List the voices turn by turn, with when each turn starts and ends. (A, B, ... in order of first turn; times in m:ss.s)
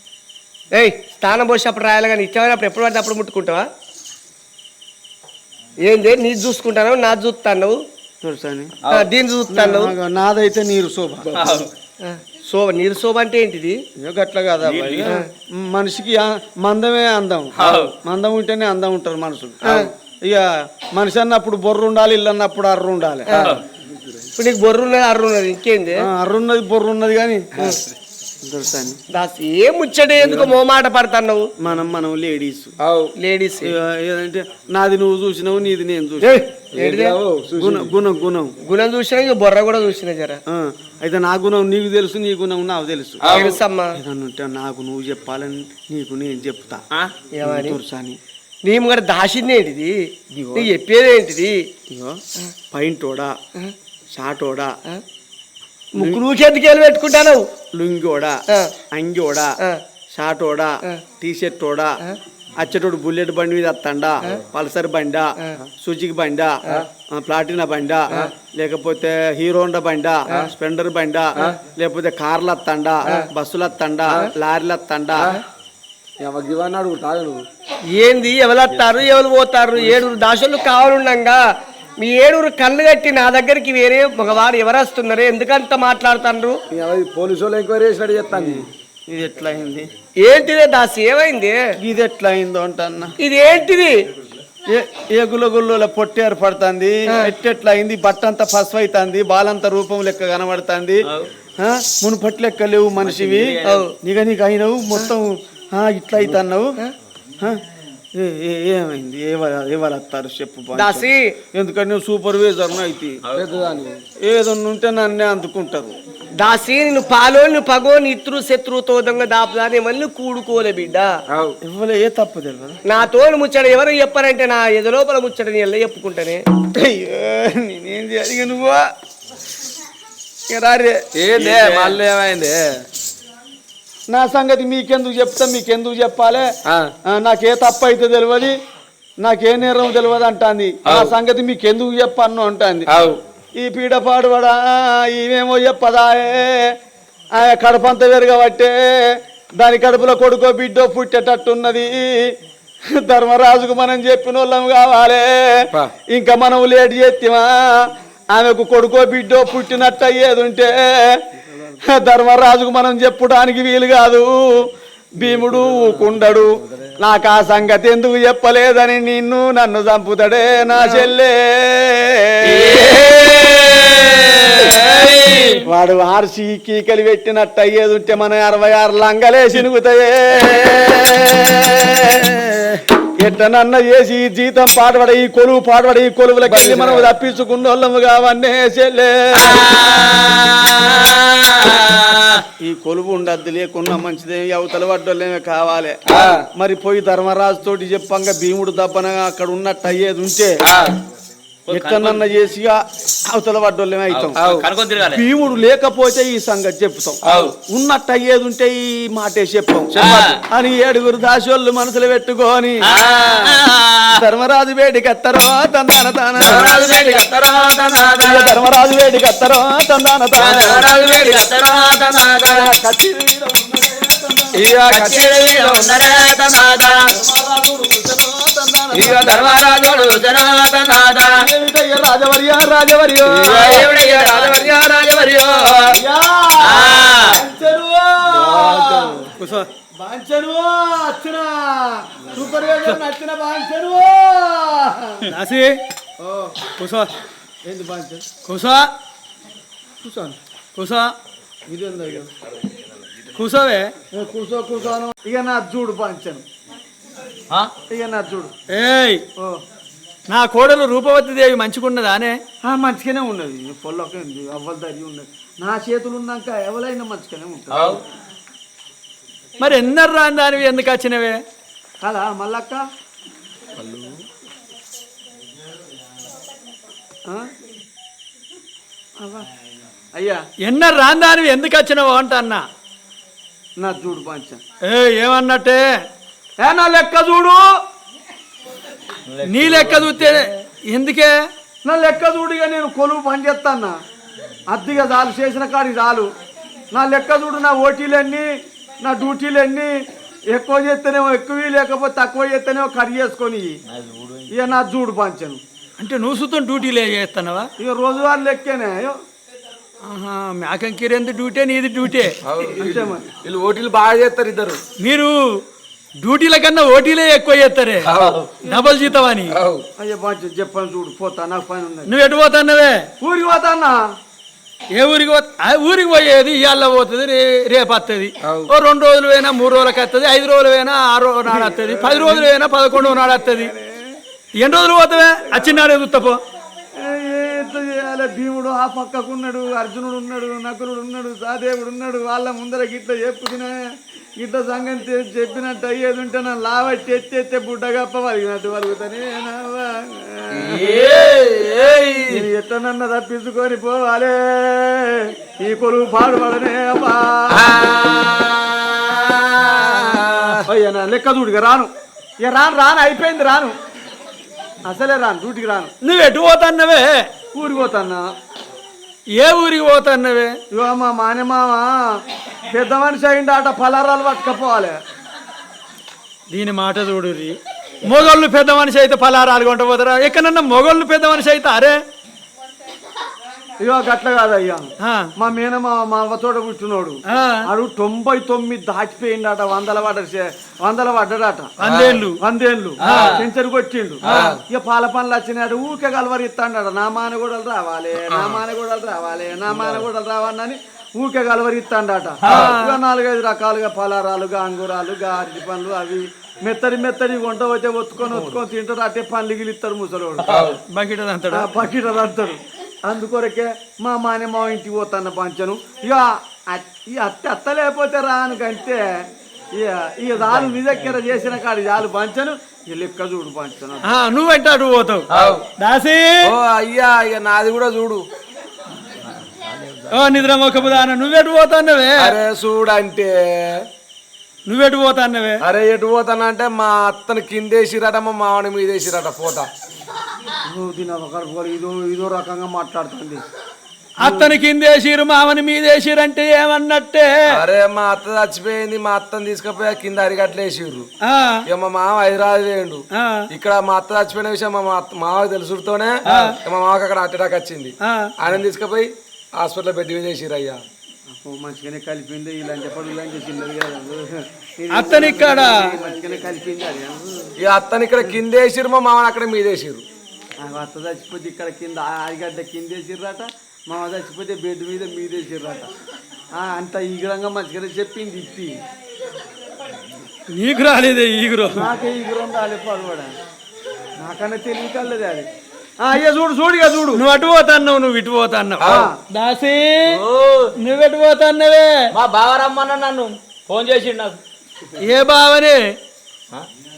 0:00.7-0:03.7 A
0:05.8-0:07.8 A
0:08.2-0:08.7 B
0:08.8-0:09.1 C
0:08.9-0:09.9 A
0:09.5-0:11.3 B
0:11.3-0:11.7 C
0:12.0-0:13.8 A
0:14.0-0:23.5 B
0:14.6-0:15.2 C
0:17.6-0:17.9 C
0:23.3-0:23.6 C
0:24.4-0:26.0 A
0:26.0-0:27.6 B
0:28.4-0:29.0 B
0:29.1-0:31.5 A
0:31.6-0:32.7 B
0:32.8-0:33.1 D
0:33.2-0:33.7 A
0:33.6-0:36.4 B
0:36.2-0:37.2 A
0:36.7-0:37.9 D
0:37.6-0:38.5 B
0:38.6-0:40.4 A
0:40.5-0:43.3 B
0:43.2-0:43.6 D
0:43.3-0:44.0 A
0:43.9-0:46.8 B
0:47.0-0:47.8 A
0:47.4-0:48.2 B
0:48.6-0:49.9 A
0:50.3-0:50.7 B
0:50.5-0:51.7 A
0:51.9-0:52.2 B
0:52.7-0:53.4 B
0:54.1-0:54.8 B
0:55.9-0:57.5 A
0:57.7-0:58.4 B
0:58.9-0:59.6 B
1:00.1-1:02.0 B
1:02.6-1:15.4 B
1:16.2-1:17.4 D
1:17.9-1:21.4 A
1:22.0-1:26.6 A
1:26.7-1:28.6 D
1:28.3-1:29.9 B
1:30.2-1:31.7 A
1:31.8-1:33.1 B
1:33.2-1:34.0 A
1:34.7-1:41.0 B
1:41.6-1:46.8 B
1:43.0-1:43.9 C
1:43.6-1:43.9 A
1:48.1-1:53.2 B
1:50.7-1:51.3 A
1:53.3-1:54.0 D
1:54.2-1:55.9 B
1:56.4-2:01.1 A
2:01.3-2:01.6 D
2:01.6-2:02.8 B
2:02.8-2:06.4 A
2:06.7-2:08.9 B
2:10.5-2:11.9 B
2:11.1-2:12.6 D
2:14.1-2:16.5 B
2:16.7-2:16.9 D
2:17.0-2:18.6 B
2:19.2-2:22.9 B
2:20.8-2:21.1 D
2:22.9-2:23.2 D
2:23.6-2:26.8 B
2:27.3-2:32.4 B
2:32.9-2:52.8 B
2:52.4-2:55.6 C
2:55.3-2:55.6 E
2:55.6-3:09.6 B
3:06.4-3:07.1 D
3:09.3-3:12.4 C
3:12.6-3:16.0 B
3:16.1-3:16.4 D
3:16.5-3:20.6 B
3:21.7-3:22.2 C
3:21.7-3:24.4 B
3:24.1-3:25.3 C
3:24.4-3:24.7 D
3:25.1-3:32.8 B
3:27.2-3:27.5 C
3:29.9-3:30.4 C
3:32.8-3:34.2 C
3:34.1-3:36.7 B
3:36.4-3:38.5 C
3:36.4-3:36.8 D
3:38.2-3:40.9 B
3:40.4-3:42.7 C
3:42.5-3:44.7 B
3:44.6-3:45.9 D
3:44.8-3:47.1 C
3:47.1-3:49.3 B
3:48.9-3:51.4 C
3:51.4-3:53.9 B
3:53.3-3:53.9 D
3:53.4-3:56.0 C
3:55.9-3:59.1 B
3:56.6-3:57.4 C
3:58.3-3:59.2 D
3:59.4-3:59.7 E
4:00.0-4:05.3 B
4:05.3-4:05.8 E
4:06.2-4:06.6 B
4:06.8-4:07.1 E
4:07.6-4:08.2 B
4:08.4-4:08.9 E
4:10.0-4:10.4 B
4:10.8-4:11.1 E
4:11.7-4:12.3 B
4:13.4-4:13.9 E
4:14.1-4:16.4 B
4:17.9-4:18.5 B
4:18.7-4:19.2 E
4:20.3-4:22.4 E
4:22.6-4:28.0 B
4:27.7-4:28.0 C
4:29.6-4:31.4 E
4:32.0-4:32.8 B
4:33.8-4:34.1 D
4:39.2-4:39.4 B
4:40.2-4:40.4 B
4:40.6-4:42.6 E
4:43.8-4:44.6 B
4:44.8-4:45.8 E
4:46.6-4:47.8 B
4:49.3-4:50.4 C
4:49.4-4:51.4 E
4:51.8-4:54.0 B
4:54.7-4:56.3 B
4:56.9-5:03.8 B
5:03.9-5:04.5 C
5:04.5-5:05.6 B
5:06.0-5:07.7 E
5:07.8-5:09.2 B
5:10.0-5:12.4 E
5:12.4-5:14.8 D
5:12.7-5:13.2 B
5:15.0-5:15.6 E
5:16.2-5:19.6 E
5:18.0-5:18.4 D
5:18.1-5:18.5 C
5:18.7-5:19.1 B
5:19.5-5:19.8 D
5:20.0-5:22.1 B
5:22.1-5:23.1 E
5:23.2-5:24.0 B
5:24.9-5:33.7 E
5:28.4-5:28.7 D
5:31.5-5:34.2 B
5:34.6-5:36.4 E
5:35.5-5:35.8 B
5:37.0-5:43.8 B
5:44.4-5:51.0 B
5:50.5-5:52.4 C
5:52.3-5:57.7 B
5:57.5-6:00.6 C
6:00.2-6:00.5 E
6:00.6-6:01.9 B
6:02.4-6:03.7 B
6:04.8-6:05.9 B
6:06.0-6:07.3 E
6:07.5-6:08.3 B
6:09.4-6:10.6 E
6:10.7-6:15.0 B
6:16.5-6:22.0 E
6:23.8-6:31.7 B
6:25.0-6:25.3 E
6:27.3-6:27.7 E
6:31.8-6:32.4 E
6:31.8-6:32.2 C
6:32.4-6:50.5 B
6:33.0-6:33.4 C
6:33.0-6:33.4 E
6:34.2-6:34.6 C
6:42.4-6:43.0 E
6:48.3-6:48.6 C
6:50.4-6:50.8 C
6:50.5-6:50.8 D
6:50.9-6:51.7 E
6:51.5-7:04.1 B
7:04.0-7:05.2 E
7:05.3-7:05.6 C
7:05.3-7:05.6 D
7:05.8-7:06.5 E
7:06.4-7:08.2 D
7:09.4-7:10.1 C
7:10.1-7:12.4 E
7:12.2-7:13.8 D
7:14.7-7:15.6 E
7:15.6-7:19.7 D
7:20.6-7:23.4 B
7:24.2-7:27.4 E
7:24.2-7:24.5 B
7:27.5-7:31.1 D
7:31.2-7:31.6 E
7:31.7-7:40.8 D
7:33.1-7:33.5 E
7:36.2-7:36.6 E
7:38.0-7:38.3 E
7:41.3-7:47.5 B
7:44.9-7:45.9 E
7:47.6-7:50.0 D
7:50.6-7:55.9 B
7:56.5-7:58.8 B
8:00.5-8:01.9 E
8:01.7-8:03.3 B
8:04.2-8:05.5 B
8:06.0-8:07.2 B
8:07.1-8:10.2 E
8:08.8-8:09.1 D
8:08.8-8:09.2 B
8:10.1-8:10.7 C
8:10.8-8:12.1 E
8:12.1-8:14.4 C
8:15.0-8:15.8 E